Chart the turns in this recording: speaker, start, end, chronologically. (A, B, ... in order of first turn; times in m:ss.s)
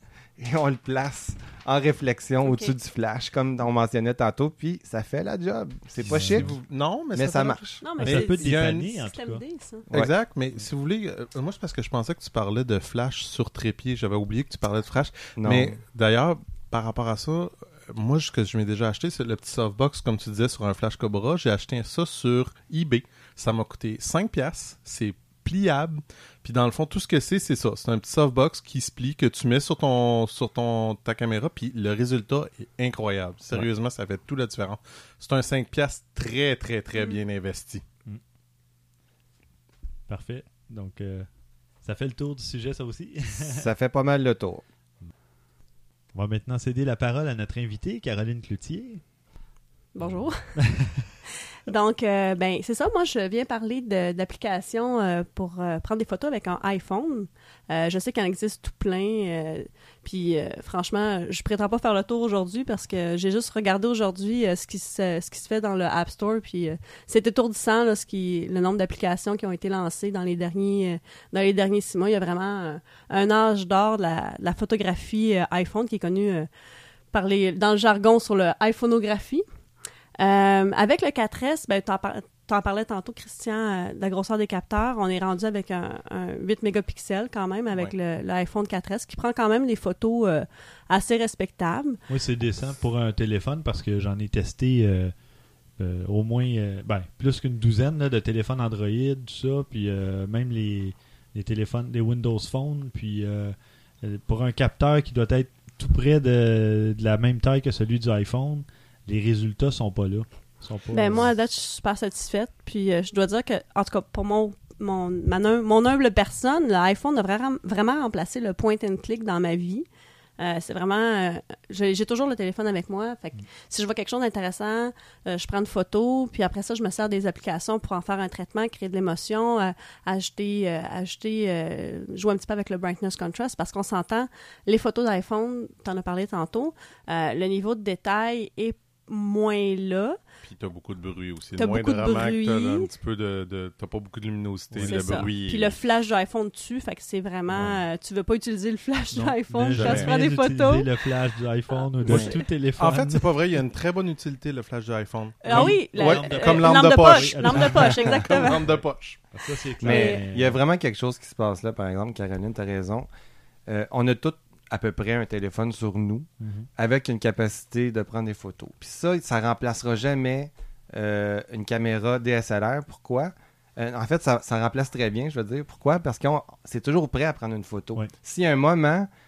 0:00.4-0:06.6 A
0:02.4-0:02.7 B
0:06.0-0:06.5 C
0:06.1-0:09.0 D
0:07.1-0:07.8 A
0:07.8-0:09.9 B
0:08.0-0:09.4 C
0:09.9-0:37.8 D
0:15.4-0:15.8 A
0:40.1-0:41.3 C
0:41.8-0:43.6 C
0:43.4-0:44.6 A
0:46.1-0:49.0 C
0:49.9-0:50.6 B
0:50.0-0:51.1 C
0:51.7-1:16.5 B
1:17.1-1:19.4 B
1:20.2-1:32.0 B
1:32.1-1:35.1 C
1:35.8-1:51.3 C
1:50.9-1:59.8 B
2:00.4-2:20.2 B
2:20.4-2:25.8 D
2:21.6-2:22.9 B
2:24.7-2:25.3 C
2:24.8-2:30.9 B
2:27.5-2:27.8 D
2:29.1-2:33.3 C
2:29.8-2:30.1 D
2:31.7-2:32.3 B
2:32.1-2:39.2 D
2:35.4-2:38.7 B
2:35.5-2:38.8 C
2:39.3-2:40.6 C
2:39.8-2:43.1 A
2:39.8-2:40.2 B
2:43.7-2:59.1 A
2:46.4-2:46.7 C